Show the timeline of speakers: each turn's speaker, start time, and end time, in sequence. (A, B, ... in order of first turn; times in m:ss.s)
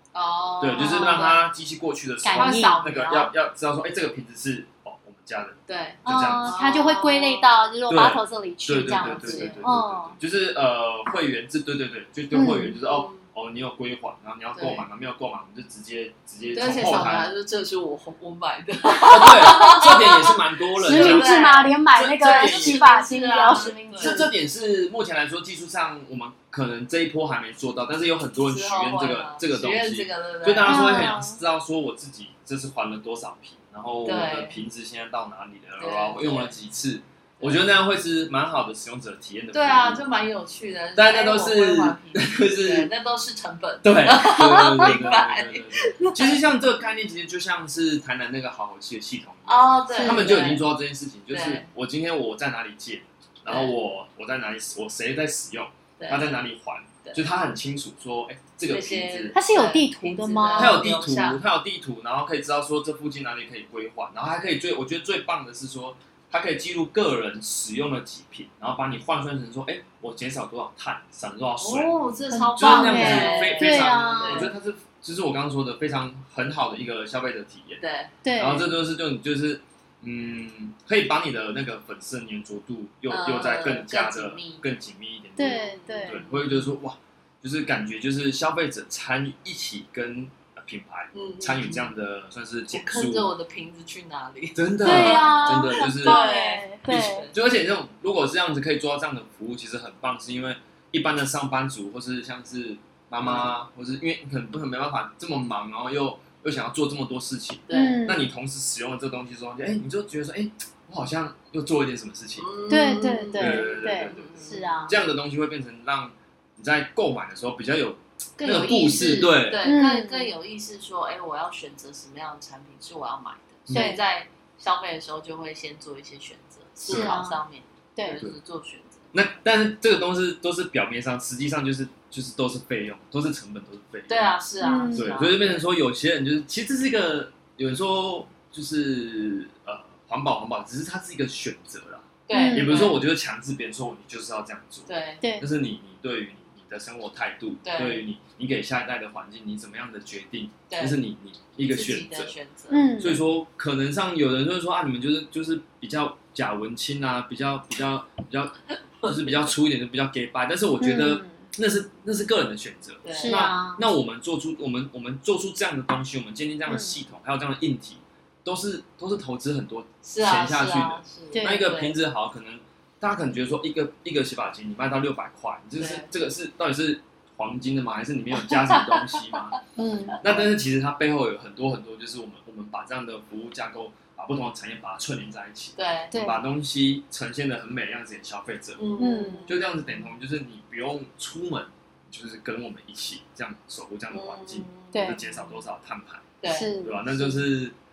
0:00.1-0:01.4 A
0:00.6-0:06.6 B
0:00.8-0:01.2 C
0:02.2-0:02.8 C
0:02.2-0:03.3 A
0:05.7-0:07.6 A
0:06.0-0:10.1 C
0:07.9-0:17.3 B
0:08.9-0:09.6 A
0:12.3-0:12.7 C
0:12.8-0:13.2 A
0:14.6-0:14.8 A
0:16.5-0:24.3 A
0:19.0-0:22.9 B
0:19.3-0:19.9 C
0:20.8-0:24.3 C
0:23.5-0:40.0 B
0:28.4-0:31.2 A
0:30.6-0:31.4 C
0:34.0-0:34.6 A
0:35.8-0:36.5 A
0:37.4-0:37.7 A
0:39.5-0:46.4 A
0:40.9-0:42.9 B
0:43.8-0:59.4 B
0:49.4-0:50.7 A
0:49.9-0:50.3 C
0:51.3-0:51.7 A
0:53.5-0:53.7 A
0:56.0-0:56.3 A
0:58.7-1:01.4 A
0:59.3-1:00.9 C
1:00.6-1:12.0 B
1:11.6-1:14.5 A
1:12.3-1:14.5 C
1:12.6-1:17.8 B
1:17.8-1:18.2 A
1:18.2-1:18.7 C
1:18.4-1:33.3 B
1:23.1-1:24.7 A
1:25.4-1:26.2 C
1:25.4-1:26.7 A
1:31.1-1:31.9 A
1:32.7-1:37.4 A
1:34.5-1:36.2 B
1:34.8-1:37.3 C
1:36.9-1:52.7 B
1:43.2-1:43.5 A
1:47.7-1:48.0 A
1:47.7-1:48.3 C
1:52.4-1:54.9 A
1:52.7-1:54.9 C
1:53.4-1:59.6 B
1:58.4-2:09.2 A
1:59.6-2:00.3 C
2:03.7-2:03.9 B
2:03.7-2:04.0 C
2:06.8-2:07.2 B
2:06.9-2:07.4 C
2:09.1-2:14.4 B
2:14.1-2:15.6 A
2:14.6-2:15.1 C
2:14.9-2:32.3 B
2:22.3-2:23.0 A
2:22.3-2:22.9 C
2:24.9-2:25.2 A
2:25.2-2:25.5 C
2:27.6-2:28.0 A
2:30.7-2:31.0 A
2:31.6-2:32.9 A
2:32.7-2:33.2 C
2:33.0-2:59.6 B
2:39.0-2:39.4 A
2:40.8-2:41.4 C
2:43.0-2:43.5 A
2:43.1-2:43.8 C
2:46.7-2:47.0 C
2:50.1-2:51.9 A
2:51.3-2:51.6 C
2:55.8-2:56.1 A
2:58.5-2:59.4 A
2:59.8-3:00.2 C
3:00.2-3:17.7 B
3:05.8-3:06.1 A
3:06.1-3:06.4 C
3:08.8-3:09.7 A
3:09.0-3:09.5 C
3:14.1-3:15.6 A
3:14.9-3:15.2 C
3:16.4-3:17.3 A
3:16.4-3:17.1 C